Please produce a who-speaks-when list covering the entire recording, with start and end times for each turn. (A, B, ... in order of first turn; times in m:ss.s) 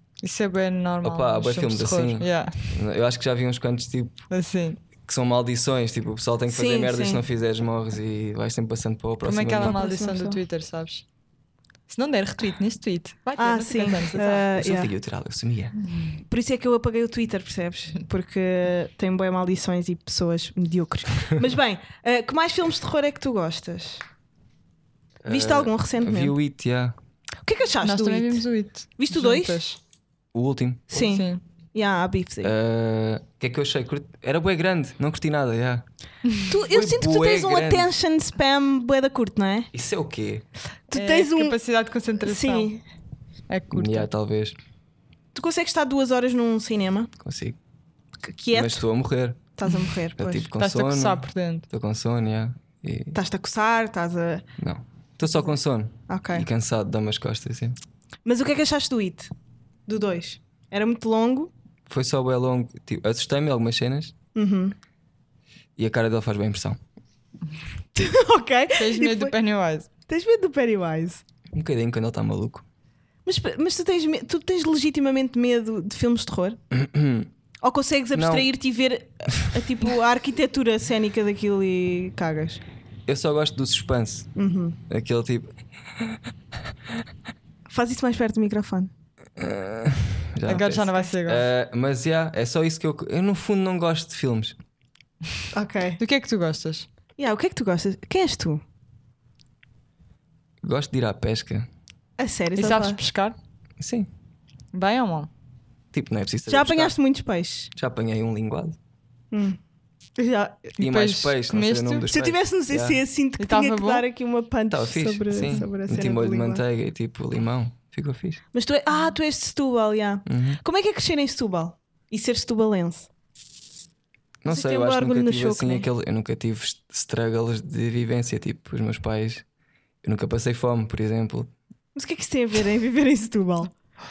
0:00.2-0:02.8 A
0:01.0-0:04.2 B
0:04.3-0:04.8 A
0:05.0-0:09.8 B
0:06.5-0:07.2 C
0:09.2-0:11.0 A
0:09.6-0:10.4 C
0:11.9-0:14.5 A
0:13.4-0:14.9 C
0:14.5-0:15.8 B
0:15.8-0:16.2 A
0:16.3-0:24.0 C
0:25.2-0:27.0 B
0:25.2-0:26.3 C
0:27.4-0:28.4 C
0:27.8-0:29.8 A
0:29.0-0:29.6 C
0:30.3-0:31.1 B
0:30.9-0:32.5 C
0:31.0-0:31.4 A
0:32.4-0:35.9 B
0:36.4-0:39.7 C
0:36.6-0:37.9 B
0:39.7-0:40.4 B
0:40.9-0:41.6 C
0:40.9-0:42.7 A
0:42.2-0:42.8 C
0:43.5-0:44.1 A
0:43.7-0:44.6 B
0:45.3-0:47.1 C
0:47.2-0:47.6 B
0:48.2-0:48.8 C
0:48.5-0:49.5 B
0:49.6-0:50.5 C
0:50.2-0:53.2 B
0:50.6-0:51.7 A
0:53.1-0:54.4 C
0:54.6-0:57.8 B
0:56.1-0:56.5 C
0:58.2-0:59.3 C
0:59.9-1:01.5 C
1:01.9-1:04.1 B
1:04.3-1:04.7 C
1:05.8-1:06.8 B
1:07.9-1:09.3 C
1:08.8-1:09.9 A
1:10.1-1:11.2 C
1:11.5-1:12.6 B
1:13.2-1:16.6 C
1:16.7-1:17.3 B
1:17.6-1:22.6 C
1:18.1-1:18.5 B
1:23.1-1:24.3 B
1:24.4-1:24.8 C
1:24.9-1:26.2 B
1:27.7-1:28.9 C
1:29.4-1:34.6 B
1:30.4-1:31.4 A
1:35.5-1:36.0 C
1:36.0-1:36.9 A
1:37.2-1:38.6 C
1:40.6-1:41.7 B
1:42.2-1:43.0 C
1:42.6-1:43.4 A
1:43.8-1:44.1 B
1:44.7-1:45.3 A
1:45.9-1:47.0 B
1:46.5-1:47.7 C
1:47.7-1:48.8 B
1:49.3-1:49.6 C
1:50.2-1:50.6 C
1:50.7-1:52.0 A
1:50.8-1:53.0 B
1:52.1-1:56.6 C
1:53.4-1:54.0 A
1:54.7-1:58.4 B
1:58.5-2:03.1 C
2:00.2-2:00.6 B
2:04.4-2:09.4 B
2:04.4-2:05.8 C
2:10.0-2:11.5 B
2:11.9-2:13.7 C